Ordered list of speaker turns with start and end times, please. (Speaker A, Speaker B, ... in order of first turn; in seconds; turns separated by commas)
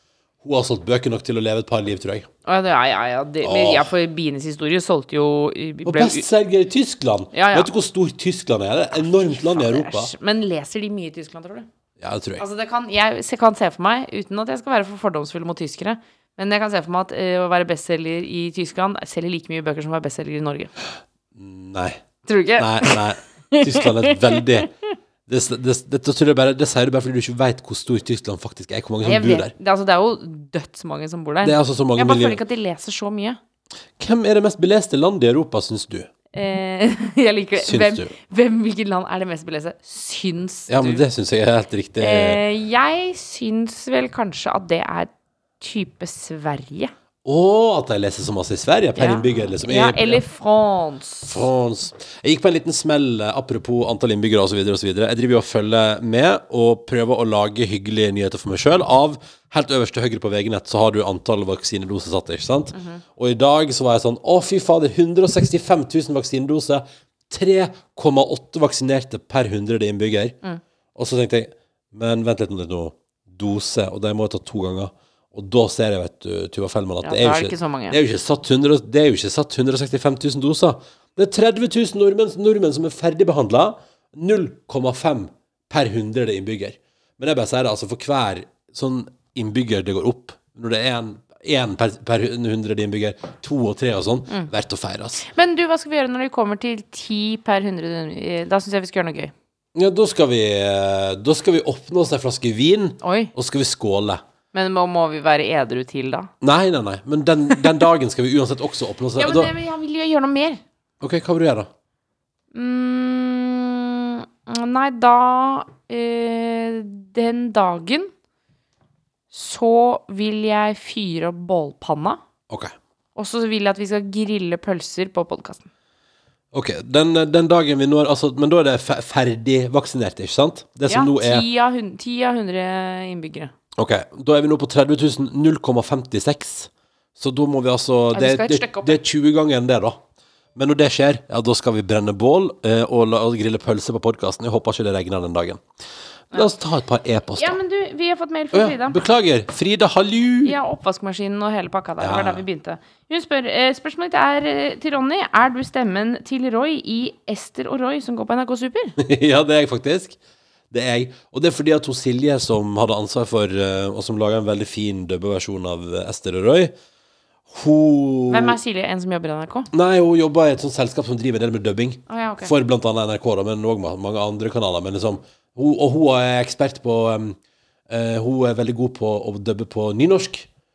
Speaker A: 0.4-2.3, Speaker B: 2.5-6.2, Speaker A: 3.4-3.9, Speaker A: 5.8-10.1, Speaker B: 7.3-7.7, Speaker B: 9.2-11.7, Speaker A: 12.0-12.4, Speaker B: 12.4-20.7, Speaker A: 21.4-22.0, Speaker B: 22.2-24.5, Speaker A: 22.6-24.7, Speaker A: 25.3-29.5, Speaker B: 29.0-33.4, Speaker A: 31.4-32.4, Speaker A: 34.0-36.1, Speaker B: 36.3-41.0, Speaker A: 37.6-38.1, Speaker A: 40.7-42.4, Speaker B: 42.0-46.9, Speaker A: 47.2-50.2, Speaker B: 49.0-51.5, Speaker A: 51.3-70.4, Speaker B: 62.7-63.0, Speaker A: 71.0-95.2, Speaker B: 77.0-78.0, Speaker B: 95.2-99.3, Speaker A: 99.8-104.2, Speaker B: 103.0-103.3, Speaker B: 104.5-106.3, Speaker A: 106.4-109.5, Speaker B: 109.2-110.6, Speaker A: 111.0-111.7, Speaker B: 112.5-118.1, Speaker B: 119.3-122.2, Speaker B: 123.2-125.7, Speaker A: 126.5-131.4, Speaker B: 130.9-133.5, Speaker A: 133.8-140.0, Speaker B: 138.1-139.0, Speaker A: 140.6-145.6, Speaker A: 146.3-147.6, Speaker B: 147.4-149.0, Speaker A: 148.5-150.6, Speaker B: 150.4-159.0, Speaker A: 152.0-152.4, Speaker A: 159.0-160.2, Speaker A: 160.7-166.7, Speaker A: 167.5-168.6, Speaker B: 168.3-169.7, Speaker A: 169.7-177.4, Speaker B: 172.1-172.5, Speaker A: 177.9-180.5